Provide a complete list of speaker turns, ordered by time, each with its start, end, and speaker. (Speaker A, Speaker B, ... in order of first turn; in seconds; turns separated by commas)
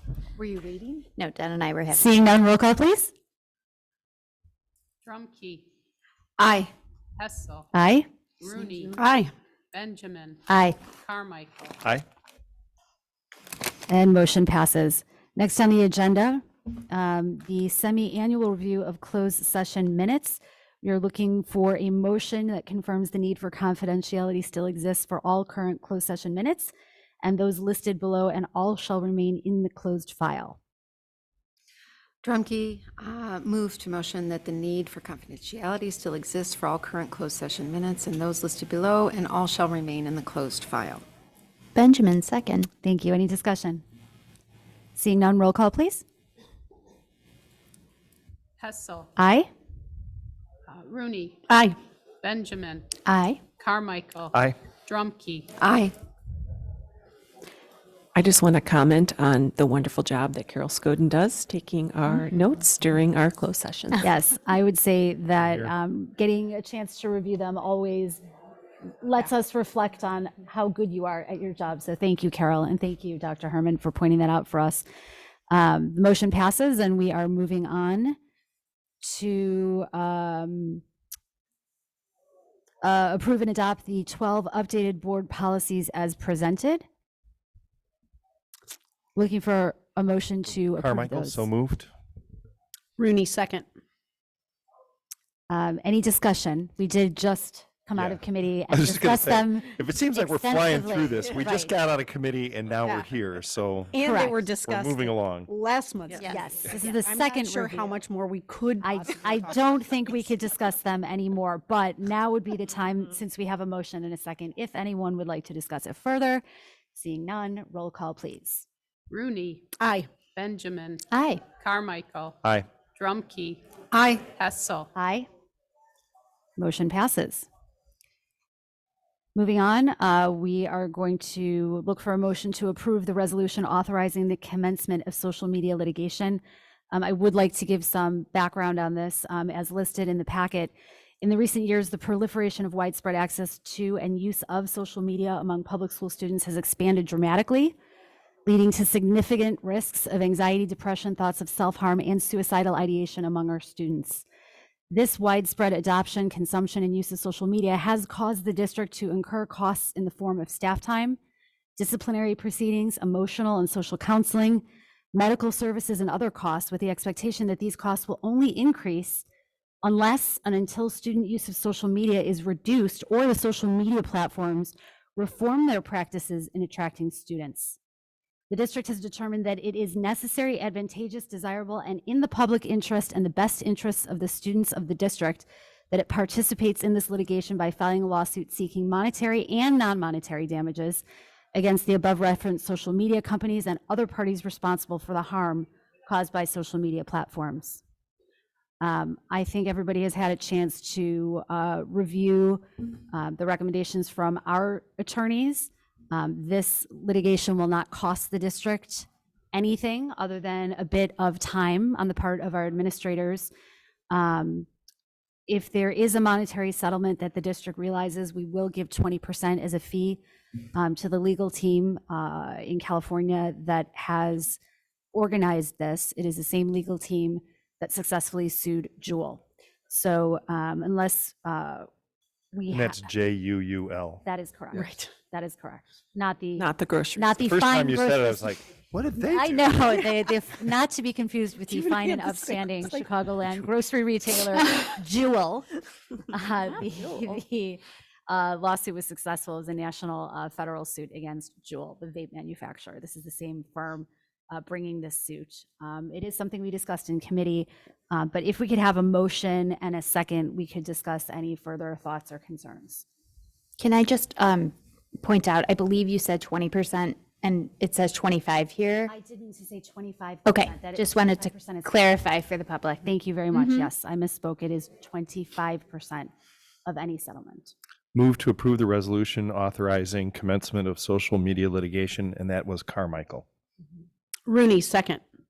Speaker A: 0.4-1.1, Speaker B: 1.1-2.1, Speaker C: 1.9-3.1, Speaker D: 5.0-5.7, Speaker A: 6.4-6.7, Speaker D: 7.2-7.7, Speaker C: 7.7-8.1, Speaker D: 8.4-9.0, Speaker E: 9.0-9.3, Speaker D: 9.7-10.4, Speaker C: 10.5-10.8, Speaker D: 11.0-11.8, Speaker C: 13.9-30.6, Speaker A: 32.2-41.0, Speaker B: 41.8-42.7, Speaker C: 42.8-43.8, Speaker C: 45.0-46.0, Speaker D: 48.6-49.1, Speaker C: 49.2-49.5, Speaker D: 50.7-51.4, Speaker E: 51.5-51.8, Speaker D: 52.2-52.9, Speaker C: 53.1-53.4, Speaker D: 53.6-55.5, Speaker A: 55.6-55.9, Speaker F: 58.1-64.1, Speaker C: 64.0-68.2, Speaker G: 65.4-65.7, Speaker C: 69.0-74.8, Speaker C: 75.5-78.2, Speaker C: 79.0-80.8, Speaker C: 82.8-86.8, Speaker C: 89.2-91.5, Speaker G: 90.8-91.9, Speaker E: 93.0-93.7, Speaker C: 95.5-101.7, Speaker G: 98.0-105.5, Speaker E: 103.9-109.5, Speaker C: 104.0-104.4, Speaker B: 106.2-106.4, Speaker C: 106.3-107.9, Speaker C: 108.8-116.4, Speaker C: 116.9-118.7, Speaker D: 119.1-119.7, Speaker E: 119.8-120.1, Speaker D: 120.3-121.0, Speaker B: 121.1-121.4, Speaker D: 121.6-122.4, Speaker D: 123.0-123.6, Speaker A: 123.9-124.2, Speaker D: 124.3-124.9, Speaker C: 125.0-125.3, Speaker C: 126.6-127.5, Speaker C: 129.3-147.8, Speaker C: 148.5-154.2, Speaker C: 154.9-161.2, Speaker C: 161.8-169.3, Speaker C: 169.8-177.8, Speaker C: 178.5-197.8, Speaker C: 198.8-213.5, Speaker C: 214.1-214.7, Speaker C: 215.5-220.2, Speaker C: 220.7-224.6, Speaker C: 225.1-231.9, Speaker C: 232.5-233.1, Speaker G: 232.7-234.2, Speaker C: 234.2-238.6, Speaker F: 236.6-237.4, Speaker G: 237.4-239.9, Speaker C: 239.2-245.7, Speaker E: 241.7-242.9, Speaker C: 246.3-263.1, Speaker B: 263.8-269.1, Speaker C: 269.1-271.9, Speaker B: 270.4-273.9, Speaker C: 273.0-276.3, Speaker C: 276.9-277.7, Speaker G: 278.1-283.4, Speaker E: 284.5-285.2